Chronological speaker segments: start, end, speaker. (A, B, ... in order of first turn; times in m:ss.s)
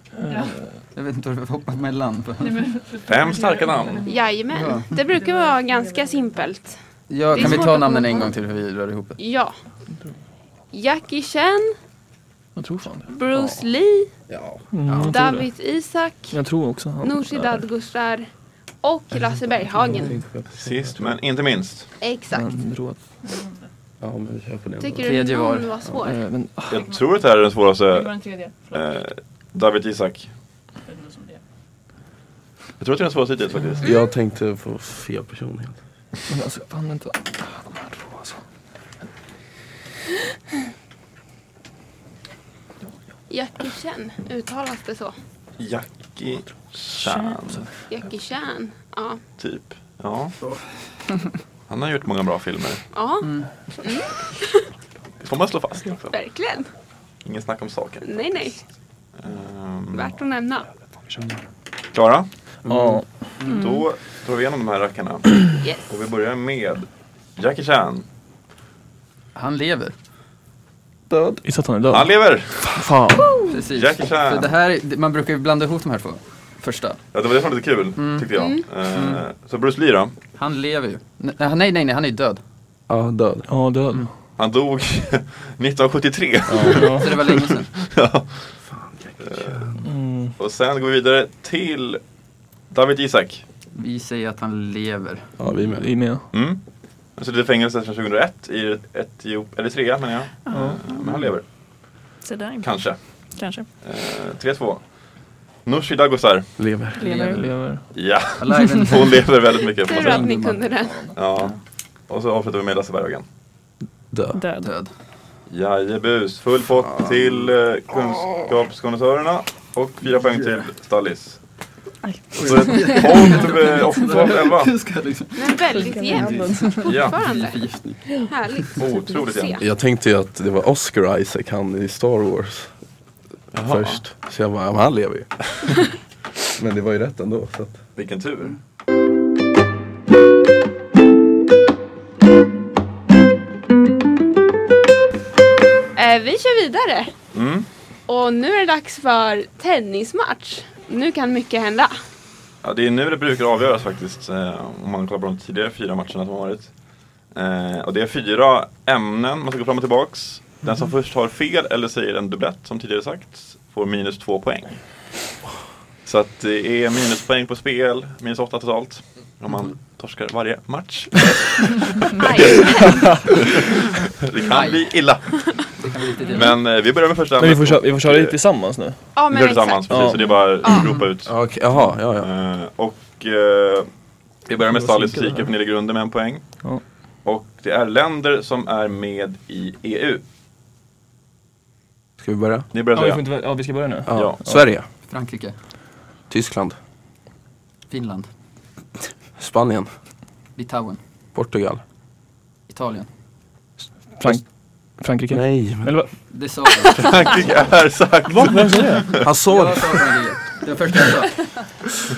0:00.2-0:00.7 A
0:00.3-0:00.6 B
0:00.9-0:02.7 C
0:02.4-0:04.2 B
0:03.1-0:04.1 D
0:04.1-0:06.8 E
0:04.5-0:04.9 C
0:05.0-0:06.4 B
0:07.1-0:09.2 C
0:07.3-0:08.3 E
0:07.4-0:08.3 B
0:09.2-0:09.6 E
0:10.7-0:11.8 E
0:12.6-0:13.2 A
0:13.1-0:14.1 E
0:14.3-0:15.2 F
0:14.7-0:15.5 A
0:15.0-0:16.4 E
0:16.3-0:17.6 A
0:17.0-0:18.3 E
0:18.8-0:20.2 E
0:19.8-0:21.2 F
0:20.5-0:21.9 D
0:22.0-0:22.5 E
0:22.3-0:23.0 A
0:23.2-0:23.6 B
0:24.0-0:25.2 F
0:24.8-0:26.2 E
0:25.0-0:25.7 C
0:26.0-0:26.8 A
0:26.7-0:30.3 D
0:27.9-0:28.8 B
0:30.9-0:31.4 B
0:32.8-0:34.0 D
0:33.8-0:35.8 F
0:36.3-0:38.4 A
0:43.3-0:45.2 E
0:45.6-0:47.7 D
0:47.9-0:49.2 E
0:49.4-0:50.4 D
0:50.4-0:50.9 C
0:51.7-0:52.8 D
0:52.9-0:54.6 E
0:53.2-0:53.5 C
0:55.2-0:56.2 D
0:56.1-0:56.7 E
0:57.2-0:58.1 D
0:58.0-0:58.6 E
0:59.2-1:00.1 D
0:59.9-1:00.7 E
1:01.9-1:02.3 D
1:02.6-1:03.3 A
1:02.7-1:03.0 F
1:03.5-1:08.1 D
1:03.5-1:03.9 B
1:05.6-1:05.9 E
1:09.4-1:10.0 C
1:11.4-1:13.4 A
1:11.9-1:12.8 D
1:13.5-1:17.0 C
1:13.7-1:14.5 D
1:17.1-1:20.1 D
1:18.0-1:18.3 C
1:18.3-1:18.7 E
1:18.8-1:19.2 C
1:20.4-1:22.4 C
1:22.9-1:23.5 F
1:23.5-1:24.2 A
1:24.4-1:28.6 D
1:26.5-1:26.9 F
1:26.7-1:27.2 A
1:27.0-1:27.7 C
1:28.7-1:29.8 F
1:29.2-1:29.8 D
1:29.8-1:30.4 A
1:30.4-1:32.0 D
1:32.7-1:33.4 D
1:33.8-1:35.4 C
1:35.4-1:36.0 F
1:35.7-1:36.3 A
1:36.3-1:41.5 D
1:40.5-1:41.0 B
1:40.5-1:40.8 A
1:42.2-1:43.7 B
1:42.6-1:43.2 D
1:43.8-1:45.0 D
1:45.6-1:46.8 D
1:46.6-1:47.0 F
1:46.9-1:47.6 B
1:47.0-1:47.7 C
1:47.3-1:47.9 A
1:47.9-1:50.3 D
1:48.4-1:49.2 C
1:49.8-1:51.1 E
1:49.9-1:50.7 C
1:51.1-1:51.6 D
1:52.1-1:53.2 D
1:54.1-1:54.4 F
1:54.3-1:54.7 B
1:54.6-1:54.9 C
1:55.5-2:01.4 D
1:56.8-1:57.5 F
2:02.0-2:03.5 B
2:02.4-2:08.2 C
2:02.4-2:04.8 D
2:05.4-2:07.7 E
2:05.7-2:07.0 B
2:06.8-2:07.2 D
2:08.3-2:09.6 E
2:08.8-2:09.6 D
2:09.6-2:12.7 F
2:13.5-2:14.0 D
2:13.7-2:15.5 F
2:16.5-2:17.8 F
2:18.0-2:18.6 D
2:26.0-2:27.1 E
2:27.3-2:27.7 D
2:28.1-2:31.9 E
2:32.6-2:36.7 D
2:37.3-2:44.9 D
2:46.0-2:55.8 D
2:52.2-2:53.2 E
2:52.8-2:53.1 A
2:54.4-2:55.1 C
2:55.8-2:56.6 C
2:56.3-2:58.4 D
2:57.4-2:59.2 A
2:59.2-3:00.9 E
2:59.3-3:01.5 D
2:59.9-3:00.8 A
3:01.2-3:02.3 F
3:02.1-3:03.9 D
3:04.4-3:10.2 D
3:04.6-3:05.5 A
3:12.2-3:12.7 F
3:12.7-3:13.3 D
3:12.9-3:14.7 A
3:14.1-3:14.9 F
3:14.1-3:14.4 D
3:15.1-3:15.6 C
3:16.3-3:16.8 F
3:17.9-3:18.3 C
3:19.4-3:19.9 F
3:20.6-3:21.0 C
3:21.3-3:21.8 F
3:22.7-3:23.1 C
3:24.2-3:26.2 A
3:25.3-3:26.0 F
3:26.3-3:27.3 C
3:27.0-3:29.3 D
3:28.3-3:29.3 A
3:29.2-3:30.0 F
3:29.4-3:31.6 C